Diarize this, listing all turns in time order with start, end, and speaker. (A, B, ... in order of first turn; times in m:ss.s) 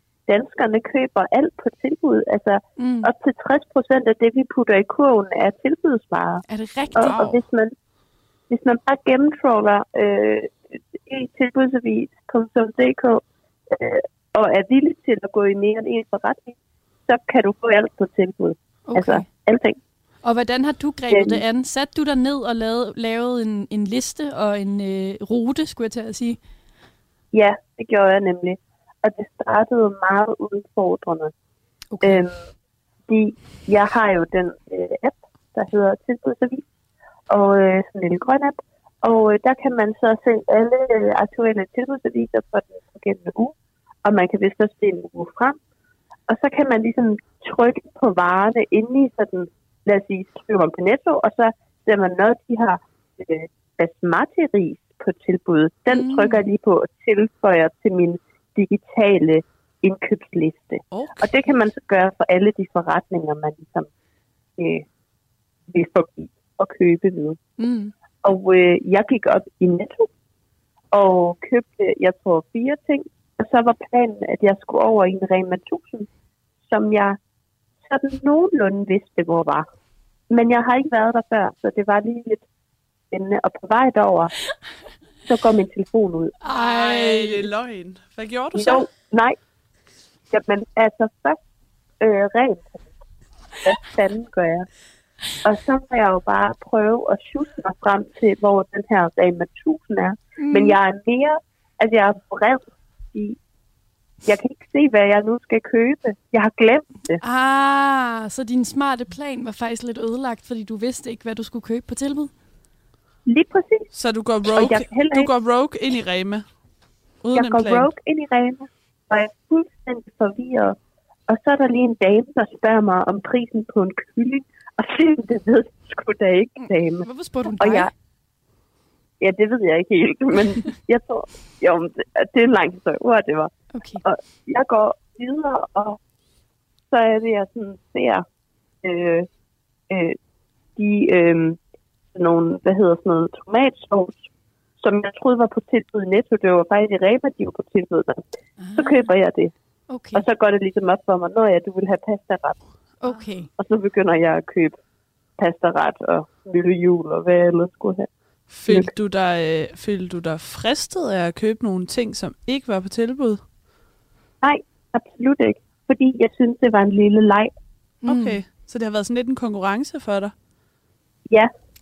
0:00.3-0:06.4 A
0:02.8-0:03.1 B
0:06.5-0:07.3 B
0:07.0-0:07.7 A
0:07.0-0:07.4 C
0:08.5-0:16.6 A
0:17.1-0:19.8 A
0:18.9-0:19.3 B
0:20.2-0:26.4 B
0:21.1-0:21.4 A
0:27.3-0:31.3 A
0:31.9-0:32.2 B
0:32.0-0:32.4 A
0:33.1-0:36.6 A
0:37.3-0:43.5 A
0:44.0-0:45.6 A
0:46.3-1:03.9 A
0:55.9-0:56.4 B
1:00.9-1:01.4 C
1:04.6-1:04.9 A
1:05.7-1:07.4 A
1:07.6-1:07.9 B
1:08.2-1:10.1 A
1:10.9-1:16.1 A
1:16.6-1:17.2 A
1:17.8-1:19.7 A
1:20.3-1:22.4 A
1:23.1-1:24.3 A
1:25.3-1:26.4 A
1:26.4-1:27.5 B
1:26.4-1:28.9 C
1:28.5-1:29.4 A
1:30.3-1:31.4 A
1:32.0-1:32.9 A
1:33.6-1:34.7 A
1:35.4-1:43.4 A
1:40.4-1:40.8 B
1:44.2-1:47.2 A
1:47.2-1:52.3 B
1:53.3-1:53.9 A
1:53.9-1:56.4 C
1:54.5-1:55.3 A
1:57.2-1:57.9 C
1:57.3-2:00.8 A
2:01.3-2:07.9 A
2:06.6-2:07.9 B
2:09.2-2:13.5 A
2:13.7-2:14.0 B
2:14.0-2:16.0 A
2:16.9-2:18.2 A
2:18.8-2:19.3 A
2:19.9-2:20.2 A
2:20.8-2:21.6 A
2:22.1-2:24.3 A
2:24.8-2:28.2 A
2:28.6-2:29.1 B
2:28.8-2:29.5 A
2:29.9-2:30.2 B
2:30.1-2:32.6 A
2:33.0-2:33.5 B
2:33.6-2:34.8 A
2:35.4-2:38.1 A
2:38.5-2:43.4 C
2:44.4-2:47.5 A
2:48.0-2:48.4 B
2:48.0-2:50.3 C